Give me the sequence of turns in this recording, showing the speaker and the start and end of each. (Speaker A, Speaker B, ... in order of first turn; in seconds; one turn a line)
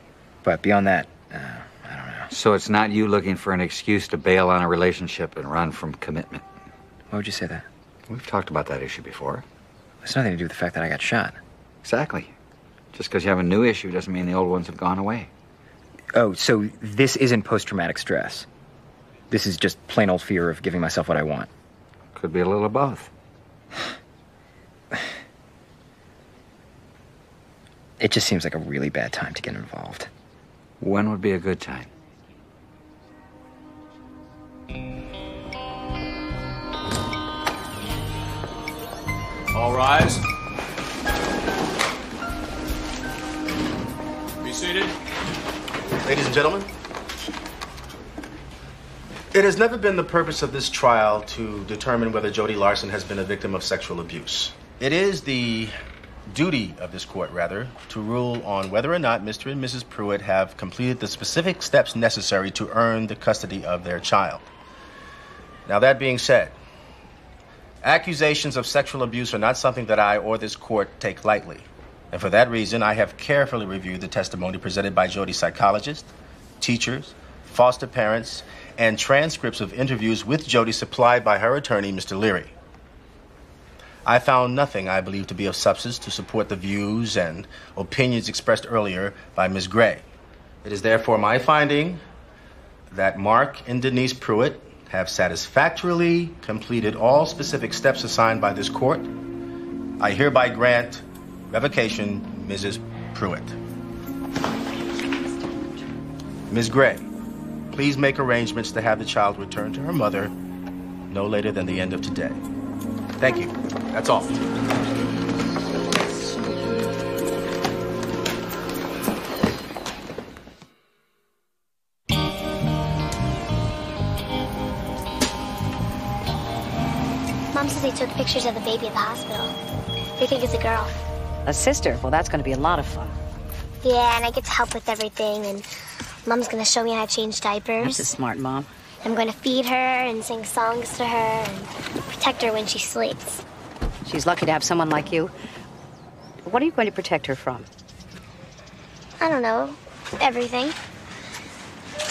Speaker A: 0.4-2.3
Speaker B: 2.3-6.4
Speaker A: 7.1-7.7
Speaker B: 8.1-9.4
Speaker A: 10.0-11.4
Speaker B: 11.8-12.3
Speaker B: 12.9-15.3
Speaker A: 16.1-18.5
Speaker A: 19.3-21.5
Speaker B: 22.1-23.1
Speaker A: 28.0-30.1
Speaker B: 30.8-31.9
Speaker C: 46.0-46.7
Speaker C: 49.3-55.7
Speaker C: 56.3-64.5
Speaker C: 65.7-66.6
Speaker C: 67.8-82.5
Speaker C: 84.1-90.1
Speaker C: 90.6-92.0
Speaker C: 92.9-99.1
Speaker C: 100.0-103.5
Speaker C: 106.5-107.0
Speaker C: 107.7-110.3
Speaker C: 111.1-112.4
Speaker C: 113.2-114.4
Speaker D: 127.5-129.5
Speaker D: 130.2-130.9
Speaker E: 131.5-133.1
Speaker D: 133.8-135.7
Speaker D: 136.3-138.1
Speaker E: 137.8-138.7
Speaker D: 139.0-143.4
Speaker E: 144.1-145.3
Speaker E: 146.4-147.7
Speaker D: 149.2-150.8